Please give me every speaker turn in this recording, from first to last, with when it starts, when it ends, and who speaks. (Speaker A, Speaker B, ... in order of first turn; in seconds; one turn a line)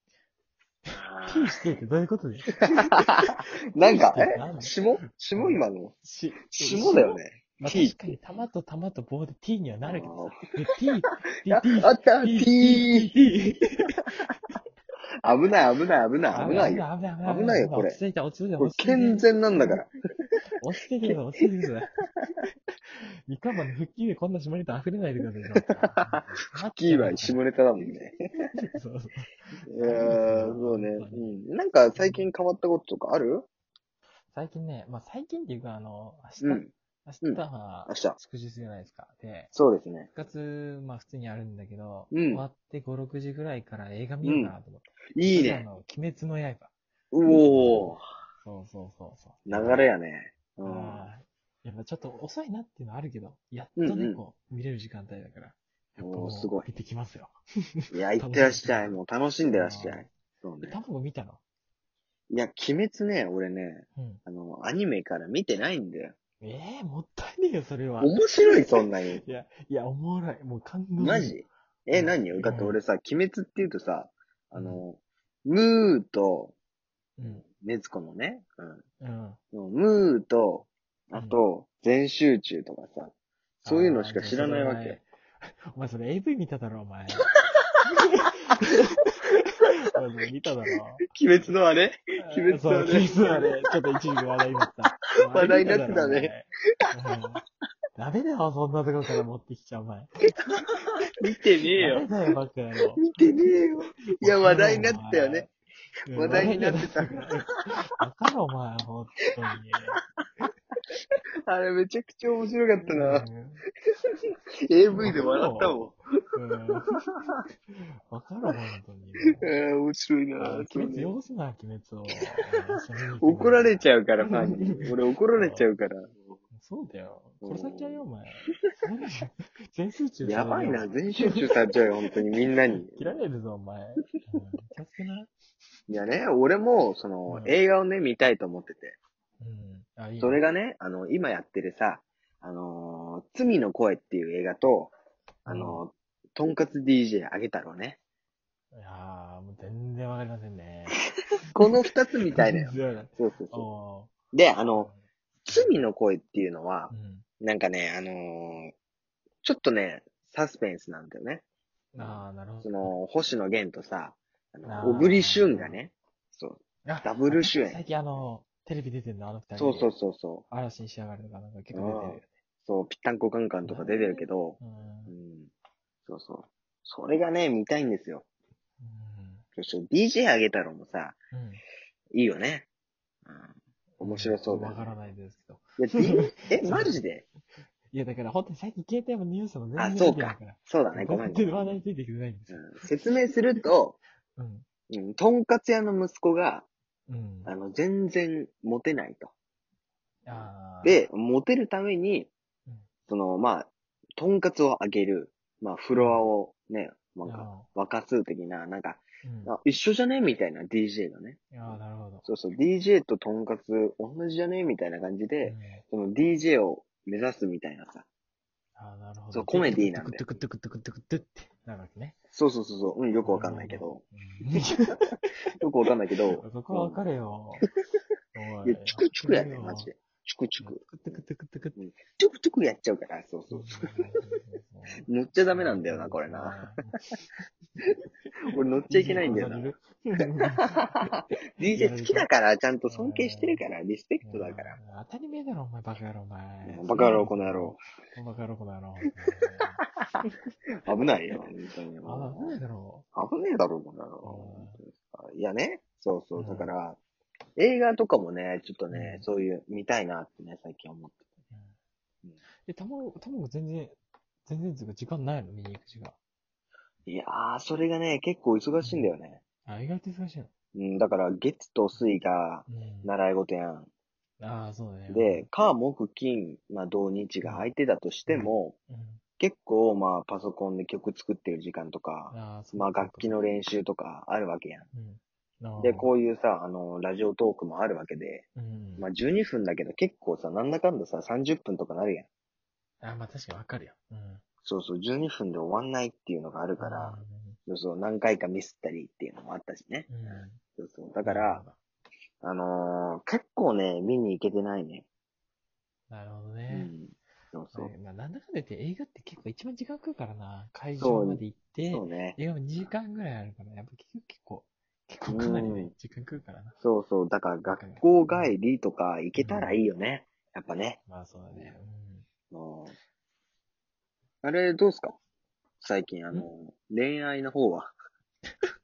Speaker A: 0.8-3.2
Speaker B: 0.9-1.6
Speaker B: 3.0-5.9
Speaker A: 3.8-4.7
Speaker A: 5.3-14.3
Speaker B: 6.5-8.0
Speaker B: 9.8-10.4
Speaker B: 11.5-13.1
Speaker B: 15.2-18.0
Speaker A: 16.3-19.8
Speaker B: 18.6-19.9
Speaker A: 20.6-21.9
Speaker A: 22.9-27.4
Speaker B: 26.8-28.1
Speaker A: 28.6-31.3
Speaker B: 29.7-33.5
Speaker A: 31.9-32.3
Speaker A: 34.3-39.5
Speaker B: 36.4-36.7
Speaker B: 37.2-38.2
Speaker B: 39.5-40.1
Speaker A: 40.1-46.7
Speaker B: 42.1-42.4
Speaker B: 44.2-44.5
Speaker B: 45.1-45.6
Speaker B: 47.1-48.0
Speaker A: 47.4-49.8
Speaker B: 49.5-51.1
Speaker A: 50.6-59.0
Speaker B: 53.8-54.2
Speaker B: 56.0-56.7
Speaker B: 57.9-60.8
Speaker A: 59.5-60.0
Speaker A: 60.6-61.4
Speaker B: 62.3-66.1
Speaker A: 64.0-64.2
Speaker A: 66.4-71.4
Speaker B: 68.0-69.2
Speaker B: 71.0-76.5
Speaker A: 71.9-72.8
Speaker A: 74.5-74.8
Speaker A: 77.2-77.4
Speaker B: 77.2-78.8
Speaker A: 79.0-79.4
Speaker B: 79.5-83.1
Speaker A: 81.1-81.4
Speaker A: 83.6-87.3
Speaker B: 83.6-85.0
Speaker A: 87.8-91.0
Speaker B: 91.1-93.5
Speaker A: 92.2-97.4
Speaker B: 95.3-96.3
Speaker A: 98.0-100.1
Speaker B: 100.3-102.1
Speaker A: 101.8-103.1
Speaker B: 103.0-105.4
Speaker A: 104.2-105.5
Speaker A: 106.1-110.0
Speaker B: 106.1-107.3
Speaker B: 111.5-113.2
Speaker A: 112.9-113.6
Speaker B: 114.7-116.0
Speaker A: 114.9-115.8
Speaker A: 116.3-117.0
Speaker A: 117.7-119.5
Speaker B: 119.4-121.1
Speaker A: 120.4-125.7
Speaker B: 123.2-126.2
Speaker A: 126.5-131.5
Speaker B: 127.4-128.0
Speaker B: 130.2-133.2
Speaker A: 132.7-135.3
Speaker B: 135.9-139.0
Speaker A: 137.3-137.6
Speaker A: 139.4-140.4
Speaker B: 140.2-144.9
Speaker A: 145.4-145.8
Speaker B: 145.5-148.0
Speaker A: 148.7-151.0
Speaker B: 151.5-153.7
Speaker A: 152.3-154.1
Speaker B: 154.3-154.9
Speaker A: 154.7-155.8
Speaker B: 155.5-158.7
Speaker A: 156.9-157.2
Speaker B: 159.4-161.4
Speaker A: 161.9-162.9
Speaker B: 162.0-167.8
Speaker A: 164.6-165.8
Speaker A: 166.8-169.9
Speaker B: 169.6-170.4
Speaker A: 170.5-172.3
Speaker B: 171.7-175.5
Speaker A: 173.6-175.1
Speaker B: 176.1-178.2
Speaker A: 178.8-179.4
Speaker B: 179.6-181.2
Speaker A: 181.3-181.6
Speaker B: 182.1-182.7
Speaker B: 183.2-184.9
Speaker A: 184.0-187.0
Speaker B: 185.8-187.2
Speaker A: 187.9-192.9
Speaker B: 189.8-191.8
Speaker B: 192.5-194.0
Speaker A: 194.3-194.7
Speaker B: 194.9-196.7
Speaker A: 197.1-197.5
Speaker B: 197.5-199.3
Speaker A: 200.2-201.0
Speaker B: 200.8-202.3
Speaker B: 203.1-211.7
Speaker A: 205.9-206.2
Speaker A: 207.2-207.7
Speaker A: 209.2-209.5
Speaker A: 211.5-212.2
Speaker B: 212.2-218.1
Speaker A: 215.4-215.8
Speaker A: 218.8-222.2
Speaker B: 219.3-220.2
Speaker B: 222.3-224.0
Speaker A: 223.2-225.3
Speaker B: 225.6-227.0
Speaker A: 226.3-227.7
Speaker A: 228.3-229.9
Speaker B: 228.7-231.2
Speaker A: 230.6-231.8
Speaker B: 231.8-233.9
Speaker A: 233.5-236.9
Speaker B: 235.1-236.6
Speaker B: 238.5-239.8
Speaker A: 238.6-242.3
Speaker B: 241.6-244.8
Speaker A: 242.9-243.6
Speaker A: 244.2-250.4
Speaker B: 246.6-247.8
Speaker B: 250.8-252.6
Speaker A: 252.0-253.0
Speaker B: 253.1-257.0
Speaker A: 254.2-254.8
Speaker A: 256.4-256.7
Speaker B: 257.6-261.2
Speaker A: 258.9-259.2
Speaker A: 262.6-263.9
Speaker A: 264.4-266.1
Speaker B: 267.1-269.4
Speaker A: 268.8-269.1
Speaker A: 269.6-270.5
Speaker B: 270.7-273.9
Speaker A: 272.7-273.1
Speaker A: 274.4-275.5
Speaker B: 275.1-278.8
Speaker A: 277.4-277.7
Speaker A: 278.3-279.2
Speaker B: 279.4-284.9
Speaker A: 282.3-283.3
Speaker A: 284.9-286.1
Speaker B: 285.8-288.4
Speaker A: 288.6-289.1
Speaker B: 289.0-292.3
Speaker A: 293.0-294.4
Speaker B: 294.6-301.6
Speaker A: 296.8-297.6
Speaker A: 300.1-300.6
Speaker A: 301.2-301.8
Speaker B: 302.4-305.1
Speaker A: 306.1-306.9
Speaker B: 306.7-307.9
Speaker A: 307.7-316.8
Speaker B: 311.0-312.9
Speaker B: 315.3-315.9
Speaker B: 316.8-321.0
Speaker A: 317.6-318.6
Speaker A: 319.4-319.8
Speaker A: 321.1-322.2
Speaker B: 322.5-322.9
Speaker B: 324.4-325.2
Speaker B: 325.8-327.9